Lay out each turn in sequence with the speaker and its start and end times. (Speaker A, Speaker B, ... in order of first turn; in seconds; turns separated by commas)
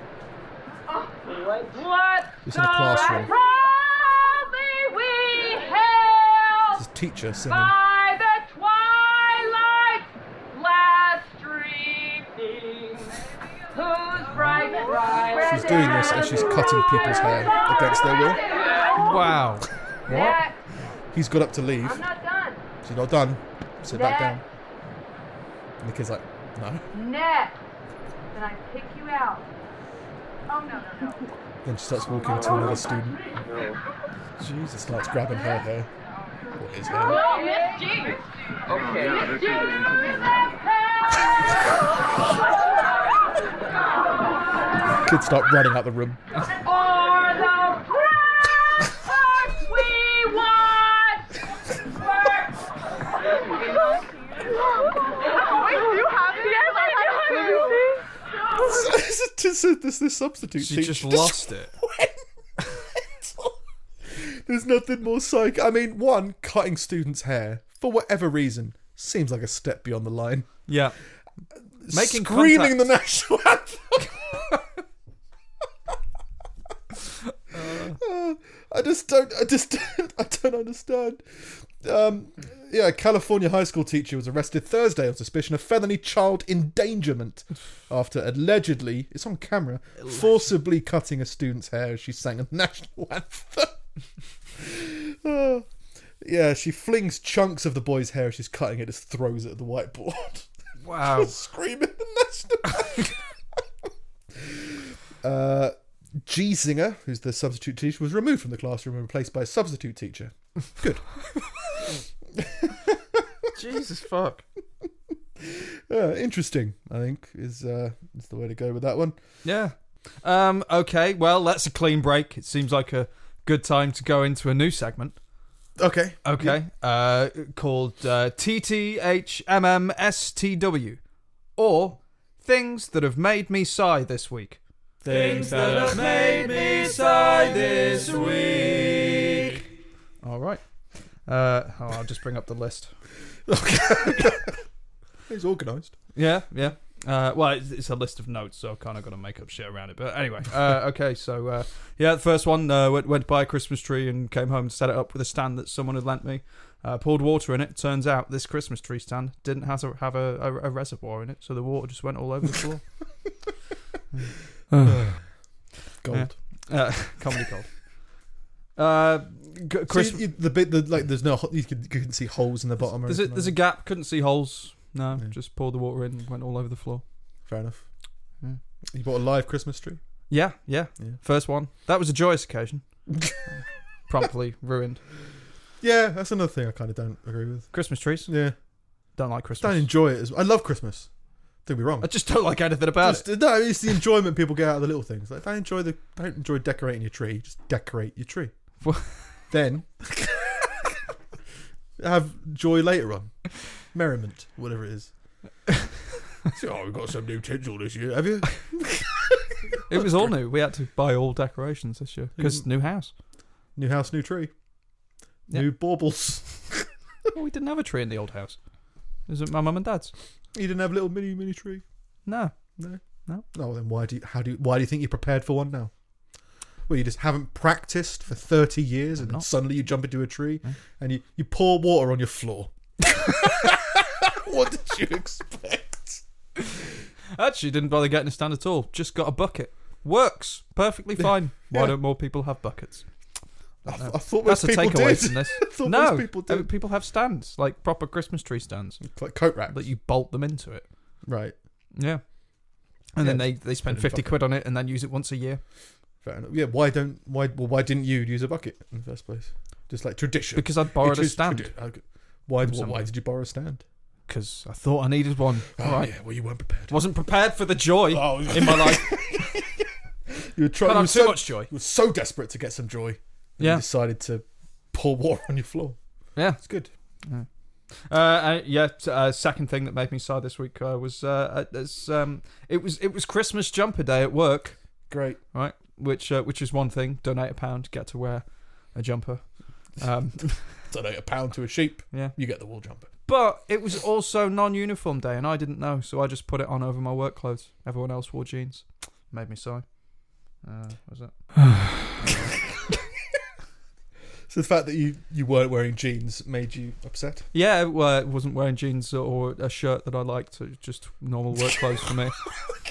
Speaker A: 0.9-6.8, Speaker B: 2.4-3.3, Speaker B: 6.8-7.7, Speaker A: 7.5-16.9, Speaker B: 15.4-18.4, Speaker A: 18.4-19.2, Speaker C: 18.9-20.4, Speaker A: 20.1-20.6, Speaker B: 21.1-22.1, Speaker A: 21.8-22.6, Speaker B: 22.8-24.4, Speaker A: 23.9-24.4, Speaker B: 25.8-26.9, Speaker A: 26.9-27.6, Speaker A: 28.3-29.5, Speaker A: 30.5-31.3, Speaker B: 31.6-33.3, Speaker B: 34.4-35.9, Speaker B: 36.5-37.2, Speaker A: 37.0-41.6, Speaker B: 45.0-46.2, Speaker A: 46.5-51.4, Speaker A: 53.4-54.0, Speaker A: 54.6-58.1, Speaker B: 58.5-62.1, Speaker C: 60.6-61.8, Speaker B: 63.2-63.5, Speaker B: 64.1-70.5, Speaker C: 70.7-71.0, Speaker B: 71.8-74.1, Speaker C: 71.9-72.9, Speaker C: 77.5-78.0, Speaker B: 77.8-93.8, Speaker B: 94.6-95.7, Speaker B: 96.2-103.1, Speaker C: 100.8-101.3, Speaker B: 105.2-111.2, Speaker B: 112.4-113.0, Speaker C: 113.5-114.4, Speaker B: 115.5-119.2, Speaker C: 119.4-125.2, Speaker B: 125.8-126.6, Speaker C: 126.2-131.0, Speaker C: 131.6-139.6, Speaker B: 135.1-135.9, Speaker C: 140.2-140.6, Speaker C: 141.2-142.9, Speaker B: 143.5-144.5, Speaker B: 145.3-145.9, Speaker C: 146.1-163.1, Speaker C: 164.1-165.2, Speaker B: 164.8-166.4, Speaker C: 166.1-167.8, Speaker C: 168.8-170.2, Speaker B: 169.9-173.6, Speaker C: 172.8-177.0, Speaker B: 177.4-177.9, Speaker B: 178.9-180.0, Speaker C: 180.3-182.8, Speaker C: 184.1-185.0, Speaker B: 185.8-187.7, Speaker C: 187.7-188.3, Speaker B: 188.3-188.6, Speaker C: 189.1-189.9, Speaker B: 189.6-191.1, Speaker B: 191.6-192.1, Speaker C: 192.0-193.3, Speaker B: 193.0-198.5, Speaker C: 198.8-199.2, Speaker B: 199.5-200.5, Speaker B: 202.0-205.1, Speaker B: 206.5-209.2, Speaker C: 209.9-213.1, Speaker B: 212.4-212.7, Speaker B: 213.7-214.5, Speaker B: 215.5-216.9, Speaker C: 217.3-218.6, Speaker C: 219.3-220.1, Speaker B: 220.5-221.8, Speaker C: 222.2-223.4, Speaker B: 222.8-225.9, Speaker B: 226.9-232.7, Speaker C: 229.1-229.4, Speaker B: 233.4-233.7, Speaker B: 234.3-236.2, Speaker C: 237.3-243.1, Speaker B: 241.2-241.9, Speaker B: 243.8-246.7, Speaker C: 244.0-250.9, Speaker B: 249.0-249.8, Speaker B: 251.2-251.6, Speaker C: 251.9-255.6, Speaker B: 253.2-254.4, Speaker B: 256.2-263.8, Speaker C: 260.6-261.7, Speaker C: 262.6-263.0, Speaker C: 264.3-266.1, Speaker B: 265.8-266.9, Speaker C: 266.9-269.2, Speaker B: 268.1-269.9, Speaker B: 270.5-276.0, Speaker C: 270.8-271.7, Speaker C: 273.6-273.8, Speaker C: 276.3-276.6, Speaker B: 276.6-276.9, Speaker C: 277.2-284.8, Speaker B: 285.1-285.4, Speaker C: 285.5-290.8, Speaker B: 290.9-293.1, Speaker C: 293.3-301.6, Speaker B: 304.5-307.4, Speaker C: 307.5-312.4